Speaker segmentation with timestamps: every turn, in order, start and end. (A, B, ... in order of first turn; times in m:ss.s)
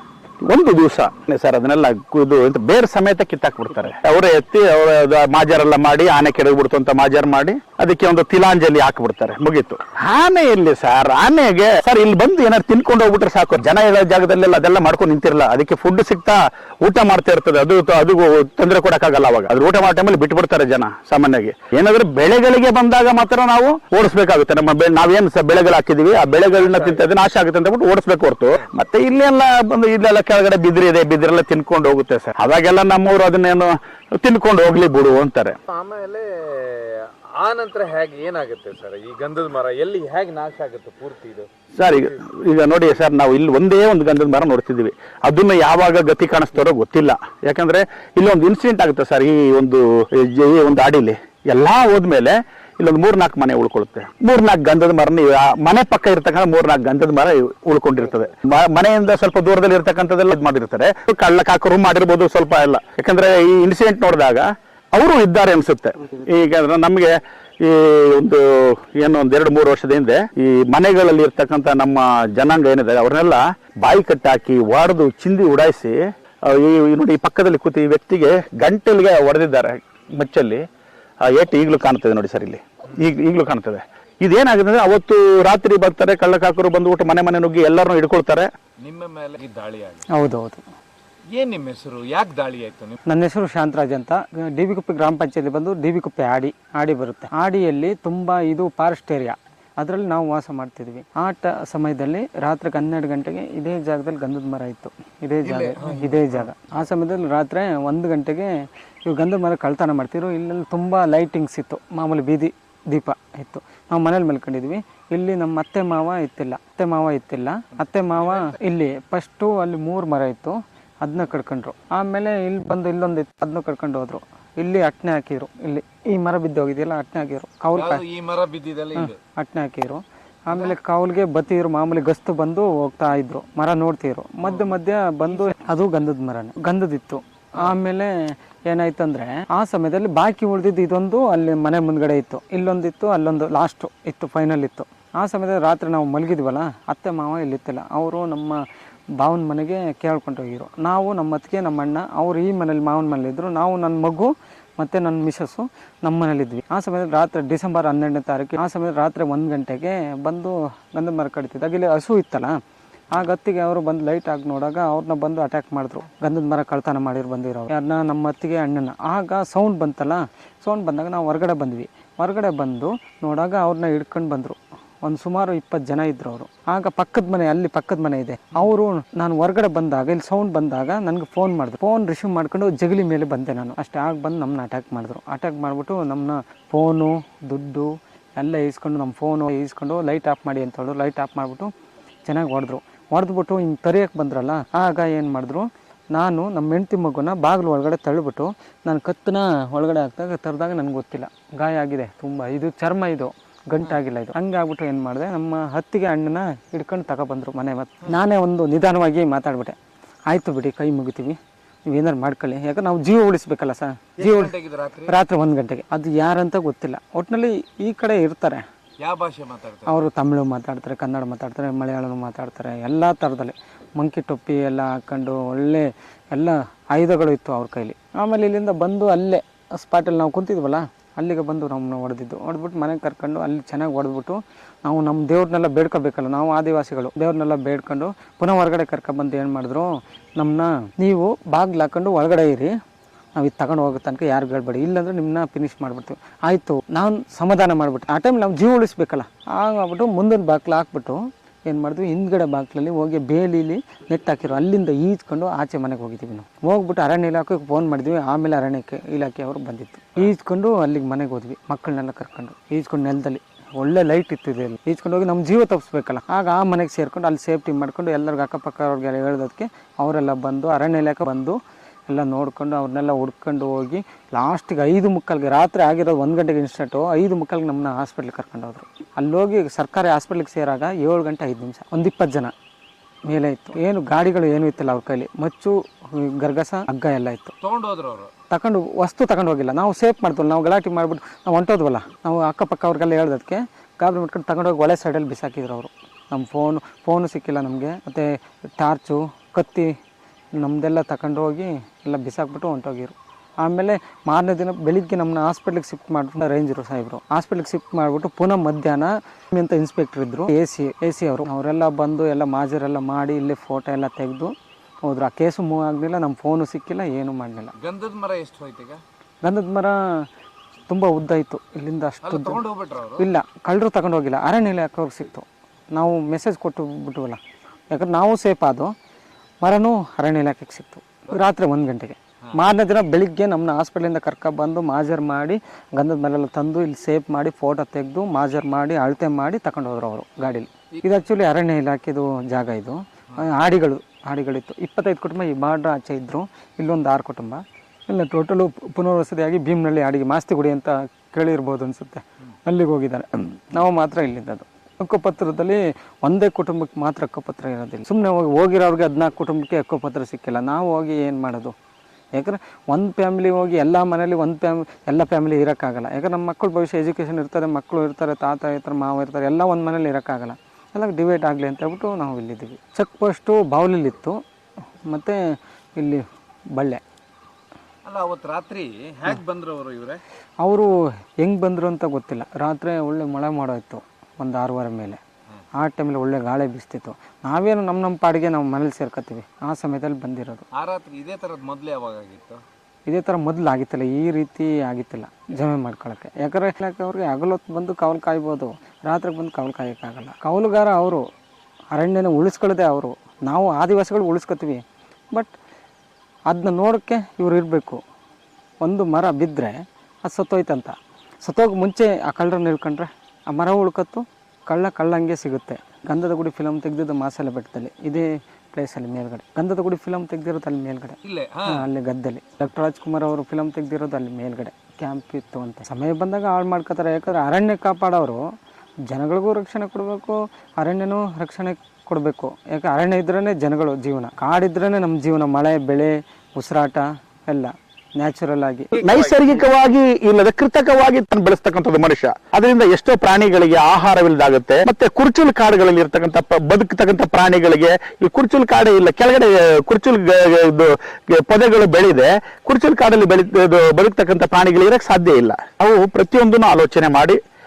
0:00.4-0:35.6 A
0:26.4-0:27.1 B
0:35.7-0:41.5 B
0:41.8-1:20.6 A
1:21.2-1:28.5 A
1:28.8-1:30.1 B
1:30.1-1:30.6 C
1:31.3-1:33.0 B
1:33.1-2:08.0 C
1:45.4-1:46.4 B
1:57.8-1:58.6 B
2:07.8-2:09.2 B
2:09.0-2:28.6 C
2:14.5-2:14.8 B
2:29.2-2:42.6 C
2:43.1-3:11.7 C
3:12.3-3:29.8 C
3:30.3-3:34.6 C
3:34.2-3:35.2 B
3:35.1-3:38.6 C
3:39.0-3:40.1 B
3:39.9-4:02.7 C
4:03.4-4:31.6 C
4:32.1-4:42.5 C
4:43.3-4:47.6 C
4:47.6-4:48.3 B
4:48.5-4:59.9 C
5:00.6-5:14.5 C
5:15.1-5:17.7 C
5:17.8-5:19.0 B
5:19.4-5:20.2 C
5:20.9-5:22.6 C
5:22.2-5:23.3 B
5:23.2-5:27.4 C
5:27.9-5:28.9 C
5:29.6-6:01.8 C
6:02.4-6:14.4 C
6:15.1-6:16.2 C
6:16.8-6:17.0 C
6:18.0-6:20.2 B
6:20.6-6:25.2 C
6:25.8-6:30.7 C
6:30.7-6:32.6 B
6:33.1-6:41.2 C
6:41.9-6:45.5 C
6:46.5-6:48.0 C
6:48.8-6:50.9 C
6:51.4-7:08.4 C
7:01.2-7:01.9 B
7:09.1-7:19.0 C
7:18.9-7:19.6 B
7:19.0-7:37.4 A